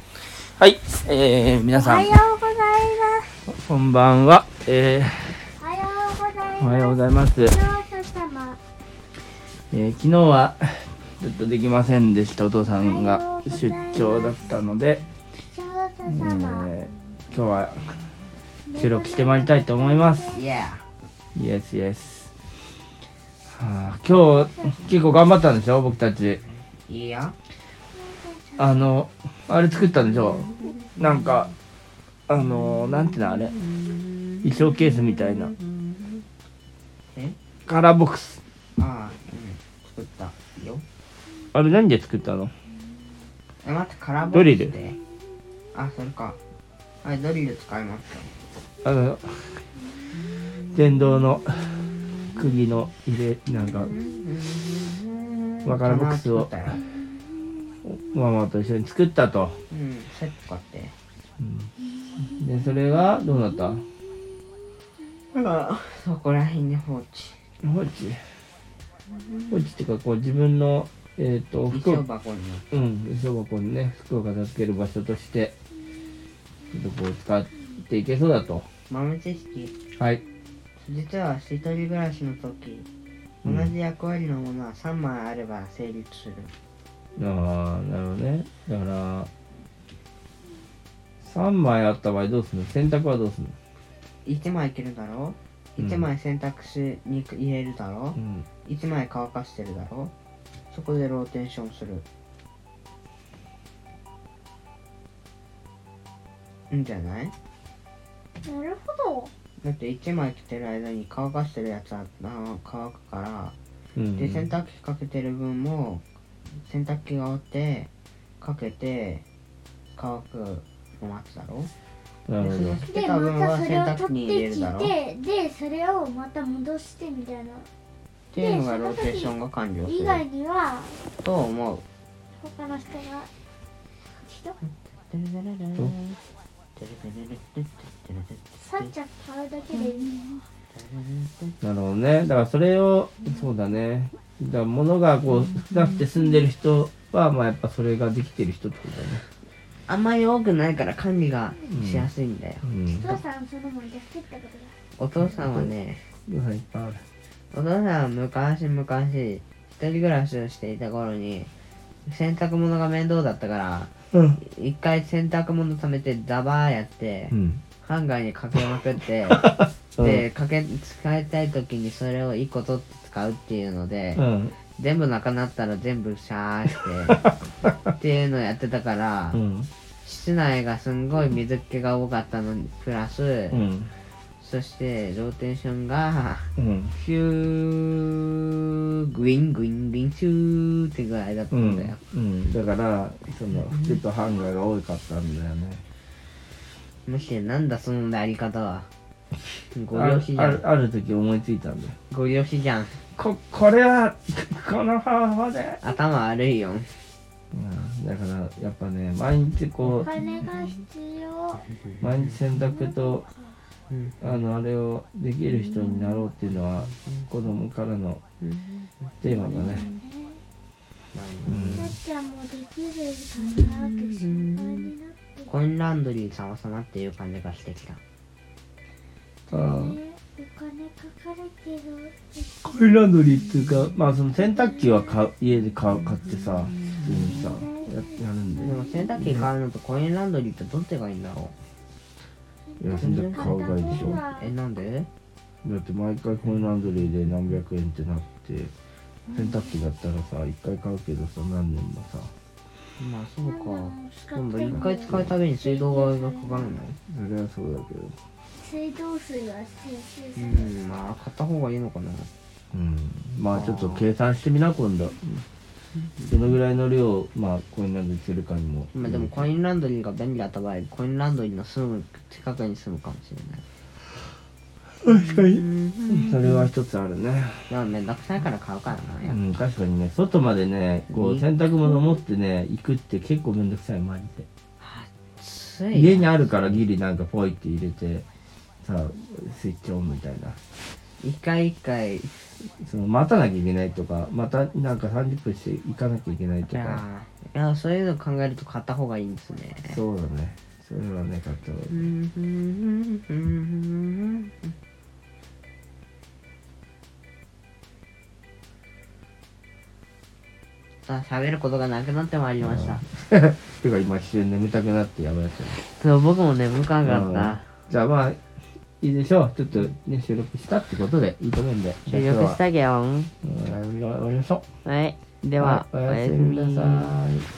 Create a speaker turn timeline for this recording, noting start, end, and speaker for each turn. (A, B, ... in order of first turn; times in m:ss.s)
0:00.6-0:02.2 A
0:01.7-0:03.4 B
0:03.5-0:05.5 A
0:05.6-0:08.6 B
0:06.6-0:07.6 A
0:09.7-0:15.0 A
0:12.6-0:14.6 B
0:15.4-0:16.7 B
0:16.1-0:18.0 A
0:18.6-0:20.4 B
0:18.8-0:20.4 A
0:20.3-0:20.8 C
0:21.4-0:22.3 A
0:23.5-0:26.4 A
0:24.2-0:24.8 B
0:26.9-0:27.4 C
0:27.9-0:28.9 B
0:28.6-0:31.5 A
0:32.3-0:33.6 A
0:33.8-0:36.2 C
0:34.4-0:35.5 A
0:37.1-0:37.4 C
0:37.7-0:38.4 A
0:38.8-0:40.8 C
0:41.5-0:42.5 A
0:43.6-0:45.0 C
0:44.3-0:44.7 A
0:45.7-0:46.4 C
0:47.0-0:48.3 C
0:48.8-0:49.6 A
0:50.7-0:53.9 A
0:53.6-0:56.8 C
0:55.7-0:56.5 A
0:57.8-0:59.6 A
0:59.7-1:01.0 C
1:01.4-1:03.9 A
1:05.3-1:07.4 C
1:07.6-1:08.3 A
1:09.1-1:09.7 C
1:09.5-1:12.0 A
1:11.7-1:12.7 C
1:12.7-1:15.6 A
1:16.7-1:18.7 A
1:18.9-1:19.8 C
1:20.0-1:20.2 A
1:20.8-1:22.9 C
1:23.4-1:23.7 A
1:23.4-1:26.5 C
1:27.2-1:29.3 A
1:31.2-1:33.6 A
1:34.2-1:40.1 C
1:35.8-1:36.1 A
1:38.2-1:38.5 A
1:40.7-1:42.0 C
1:46.7-1:47.3 C
1:48.4-1:49.3 B
1:49.6-1:53.6 C
1:54.0-1:54.5 A
1:54.2-1:57.9 C
1:58.4-1:59.2 C
1:59.9-2:01.7 C
2:02.3-2:02.8 A
2:02.4-2:04.9 C
2:02.8-2:07.7 B
2:08.3-2:10.2 C
2:08.4-2:09.3 B
2:09.8-2:11.0 B
2:11.2-2:11.8 C
2:12.4-2:13.3 B
2:14.2-2:14.6 B
2:14.6-2:16.2 C
2:16.8-2:18.9 C
2:18.6-2:20.4 B
2:20.7-2:21.6 C
2:21.6-2:29.2 A
2:29.9-2:32.6 C
2:31.6-2:32.1 A
2:32.6-2:33.2 A
2:32.9-2:34.8 B
2:35.0-2:36.1 C
2:35.2-2:35.7 A
2:36.3-2:37.0 A
2:37.5-2:41.5 C
2:42.1-2:54.2 C
2:44.1-2:44.4 A
2:47.3-2:47.6 A
2:49.3-2:50.2 A
2:54.2-2:54.6 A
2:54.8-2:57.2 C
2:57.1-2:57.7 A
2:58.0-2:59.4 C
2:59.3-2:59.7 A
3:00.0-3:03.6 C
3:03.5-3:03.9 A
3:04.4-3:12.0 C
3:06.6-3:06.9 A
3:11.5-3:15.8 A
3:13.6-3:14.0 C
3:17.1-3:18.9 C
3:19.7-3:20.6 C
3:19.9-3:22.0 A
3:22.1-3:23.0 C
3:23.2-3:25.8 A
3:25.8-3:27.0 C
3:27.5-3:30.1 A
3:29.9-3:30.5 C
3:30.0-3:31.7 B
3:31.8-3:32.4 C
3:32.0-3:33.3 A
3:33.9-3:34.2 C
3:34.2-3:38.2 A
3:36.0-3:36.2 C
3:36.9-3:37.2 C
3:38.4-3:40.0 C
3:39.2-3:39.9 A
3:39.4-3:40.4 B
3:41.1-3:42.0 C
3:41.5-3:42.0 A
3:41.8-3:45.5 B
3:43.4-3:44.9 C
3:45.5-3:48.0 C
3:49.5-3:53.0 B
3:49.5-3:50.0 A
3:52.6-3:59.5 A
3:54.7-3:55.2 B
3:57.3-3:59.2 B
3:58.6-4:01.5 C
4:02.8-4:04.5 B
4:02.8-4:04.2 A
4:03.0-4:05.1 C
4:05.6-4:08.7 A
4:06.5-4:07.0 C
4:09.3-4:09.7 C
4:09.3-4:12.3 A
4:13.0-4:17.0 C
4:13.4-4:16.8 B
4:14.7-4:15.3 A
4:17.1-4:18.2 A
4:18.6-4:20.7 B
4:20.4-4:22.3 C
4:22.7-4:25.5 A
4:23.5-4:24.1 C
4:26.1-4:26.3 C
4:26.2-4:29.4 A
4:28.9-4:33.6 C
4:35.0-4:37.7 A
4:35.1-4:36.7 C
4:37.7-4:39.4 C
4:39.2-4:44.5 A
4:41.1-4:41.5 C
4:44.8-4:46.8 C
4:45.9-4:48.3 A
4:48.8-4:50.6 A
4:51.2-4:52.5 C
4:52.8-4:57.0 A
4:56.7-5:00.0 C
4:59.8-5:02.1 A
5:01.9-5:04.7 C
5:11.0-5:13.0 C
5:12.6-5:15.8 A
5:15.9-5:17.8 C
5:17.0-5:18.4 A
5:19.0-5:22.6 A
5:22.1-5:23.3 C
5:23.4-5:24.6 A
5:24.8-5:27.2 C
5:25.6-5:27.5 A